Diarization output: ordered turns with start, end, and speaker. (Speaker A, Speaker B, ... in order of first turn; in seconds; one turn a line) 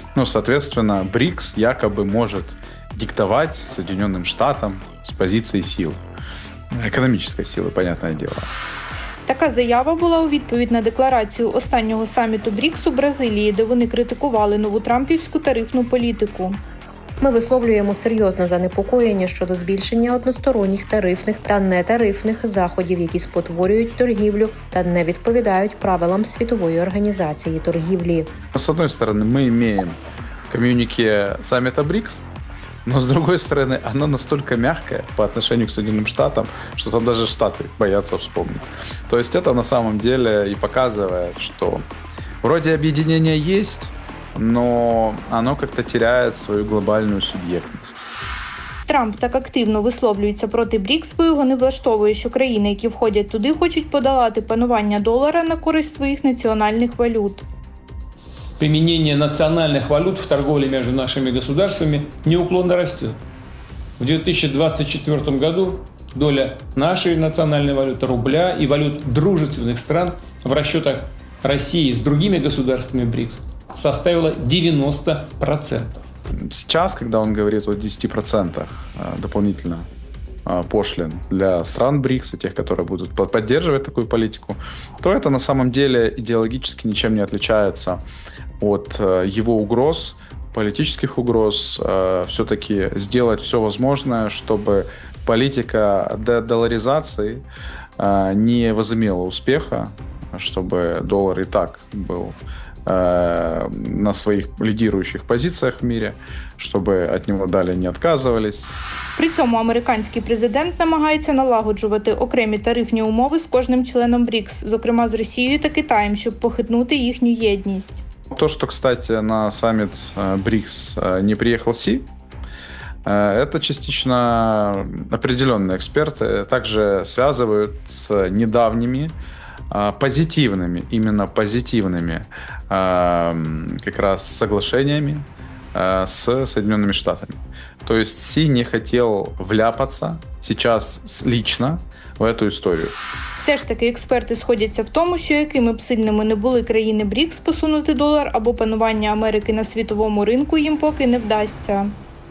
Speaker A: 0.1-6.0
Speaker A: 6.7-8.5
Speaker B: 9.3-16.6
Speaker C: 17.2-28.3
Speaker A: 28.5-30.0
Speaker A: 30.5-32.2
Speaker A: 32.9-41.8
Speaker A: 42.4-48.0
Speaker B: 48.9-57.4
Speaker D: 58.6-63.2
Speaker D: 64.0-76.1
Speaker A: 76.5-79.8
Speaker A: 80.5-88.0
Speaker A: 88.6-97.4
Speaker A: 98.0-102.4
Speaker A: 102.9-108.7
Speaker B: 109.2-118.0
Speaker A: 118.3-122.0
Speaker A: 123.1-129.1
Speaker A: 129.7-142.9
Speaker B: 143.4-151.9